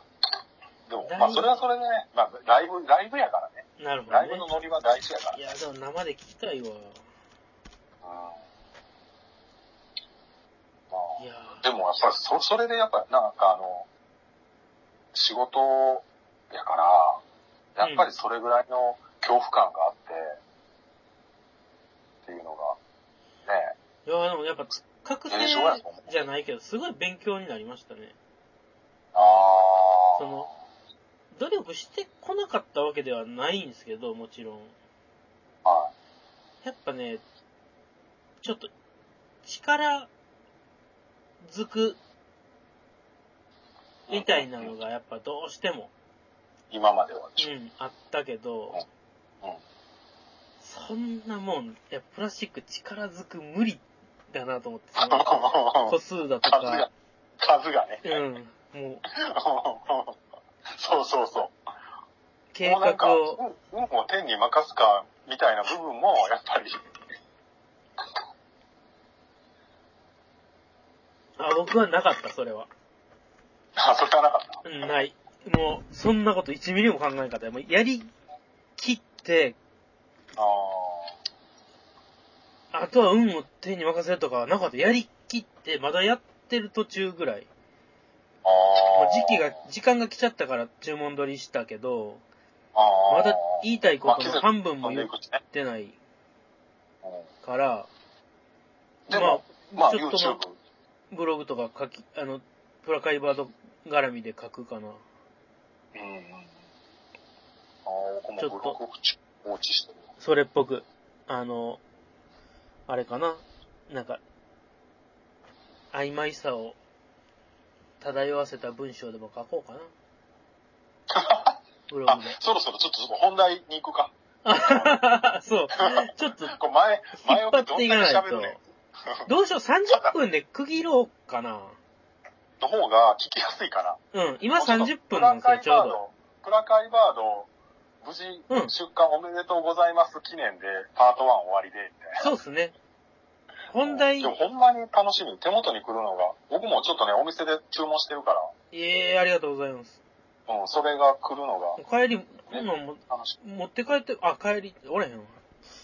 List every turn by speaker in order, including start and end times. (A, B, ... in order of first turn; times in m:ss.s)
0:00.9-0:05.5 A
0:01.0-0:01.5 B
0:03.8-0:04.5 B
0:05.3-0:07.0 B
0:08.0-0:08.4 A
0:10.9-0:13.9 A
0:11.2-0:11.6 B
0:15.1-0:17.2 A
0:17.8-0:20.4 A
0:17.8-0:18.1 B
0:22.2-0:22.8 A
0:23.4-0:23.8 A
0:24.0-0:28.2 B
0:25.3-0:26.0 A
0:29.1-0:30.5 A
0:30.2-0:30.5 B
0:31.3-0:34.7 B
0:35.6-0:35.9 A
0:36.6-0:37.2 B
0:38.4-0:38.7 B
0:39.4-0:40.1 B
0:41.4-0:42.0 B
0:44.1-0:44.7 A
0:44.1-0:45.9 B
0:46.7-0:47.5 A
0:47.4-0:48.8 B
0:50.6-0:55.3 B
0:55.0-0:56.9 A
0:55.9-0:56.9 B
0:57.4-0:58.2 A
0:58.0-0:59.0 B
0:59.1-1:00.2 A
1:00.7-1:01.5 A
1:02.5-1:03.4 B
1:02.6-1:06.8 A
1:11.4-1:12.7 B
1:13.8-1:14.6 A
1:14.6-1:18.1 B
1:18.8-1:19.6 B
1:20.3-1:21.1 A
1:22.7-1:27.5 B
1:28.4-1:29.5 A
1:28.9-1:32.2 B
1:32.7-1:35.4 A
1:33.1-1:36.0 B
1:37.4-1:37.9 B
1:39.1-1:40.6 A
1:39.1-1:40.4 B
1:41.1-1:45.0 B
1:45.9-1:46.5 A
1:47.8-1:50.0 A
1:48.4-1:48.8 B
1:50.2-1:51.8 B
1:52.9-1:54.2 B
1:55.9-1:56.8 B
1:58.0-1:59.9 B
2:01.1-2:05.0 A
2:01.9-2:02.4 B
2:04.4-2:06.6 B
2:05.8-2:09.3 A
2:07.2-2:08.6 B
2:09.2-2:11.8 B
2:12.6-2:14.0 A
2:14.1-2:16.0 B
2:14.5-2:17.5 A
2:18.0-2:22.3 A
2:18.5-2:18.7 B
2:22.2-2:22.7 B
2:23.7-2:24.3 B
2:23.8-2:28.5 A
2:28.7-2:30.0 B
2:30.5-2:31.8 A
2:31.8-2:35.4 B
2:32.5-2:33.4 A